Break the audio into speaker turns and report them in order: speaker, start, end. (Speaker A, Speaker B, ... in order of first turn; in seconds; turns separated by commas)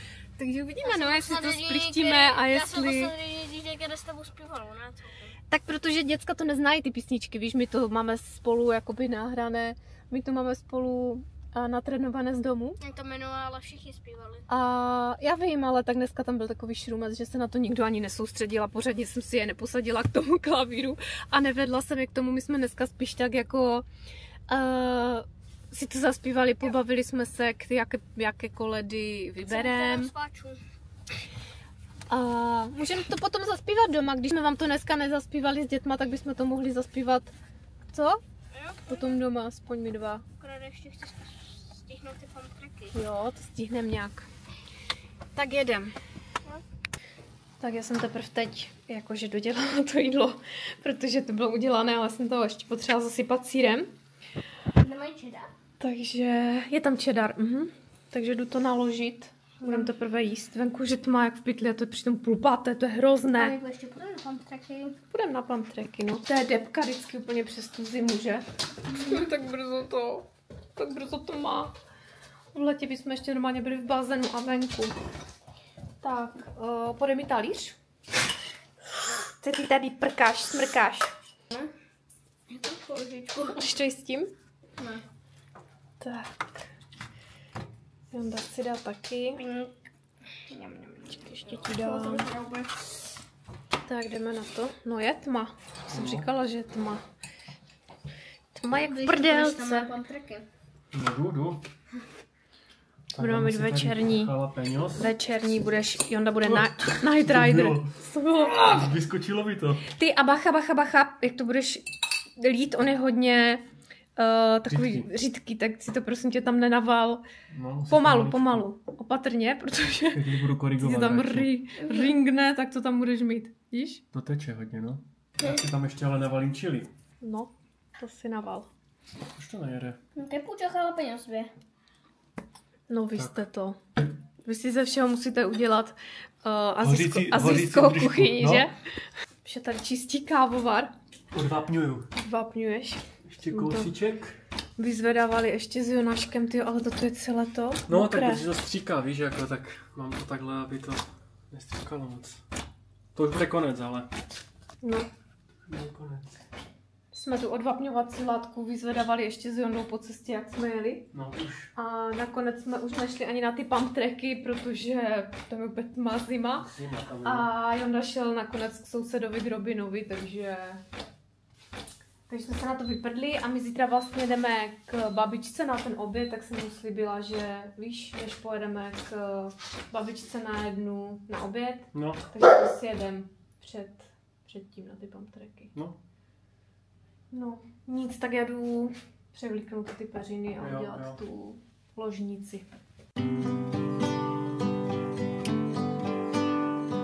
Speaker A: 0.4-3.1, Speaker B: 0.8-5.3, Speaker A: 5.5-12.8, Speaker B: 12.8-14.4, Speaker A: 14.5-23.8, Speaker A: 24.5-30.1, Speaker B: 29.4-30.6, Speaker A: 32.1-37.3, Speaker A: 37.9-38.2, Speaker B: 38.5-39.2, Speaker A: 38.9-40.2, Speaker B: 40.4-42.9, Speaker A: 42.9-44.3, Speaker A: 45.3-45.9, Speaker A: 47.6-53.9, Speaker B: 54.8-55.5, Speaker A: 55.8-63.6, Speaker B: 59.6-59.9, Speaker B: 63.3-65.0, Speaker A: 65.1-70.2, Speaker A: 70.8-71.7, Speaker A: 72.5-74.9, Speaker A: 76.0-77.8, Speaker A: 79.4-81.1, Speaker B: 82.5-83.6, Speaker A: 83.5-84.3, Speaker B: 84.8-85.0, Speaker A: 86.0-86.6, Speaker A: 88.1-89.4, Speaker B: 89.4-89.7, Speaker B: 90.5-92.8, Speaker A: 91.3-92.3, Speaker A: 93.8-97.0, Speaker C: 95.9-96.3, Speaker A: 98.5-99.9, Speaker B: 98.7-100.5, Speaker C: 100.9-101.6, Speaker C: 103.1-105.1, Speaker A: 103.2-104.3, Speaker A: 105.0-108.8, Speaker C: 106.5-107.9, Speaker C: 108.4-109.8, Speaker A: 110.0-111.8, Speaker A: 112.4-113.6, Speaker A: 114.2-117.2, Speaker C: 114.7-115.1, Speaker C: 117.5-118.6, Speaker A: 117.9-124.0, Speaker C: 120.1-121.5, Speaker B: 121.8-122.1, Speaker C: 124.1-126.9, Speaker A: 127.2-128.7, Speaker C: 129.3-130.0, Speaker B: 130.2-131.5, Speaker A: 132.9-133.8, Speaker A: 134.4-138.7, Speaker C: 136.8-138.7, Speaker A: 139.4-140.9, Speaker C: 141.3-142.1, Speaker A: 142.2-143.9, Speaker C: 143.3-144.4, Speaker A: 144.8-148.4, Speaker C: 147.9-152.4, Speaker C: 153.1-154.1, Speaker A: 154.8-155.1, Speaker C: 155.7-156.3, Speaker A: 157.1-161.1, Speaker C: 161.1-161.7, Speaker A: 161.8-166.7, Speaker C: 166.6-167.5, Speaker A: 167.2-170.8, Speaker A: 172.3-185.7, Speaker C: 181.9-182.2, Speaker A: 187.3-192.6, Speaker C: 190.6-191.2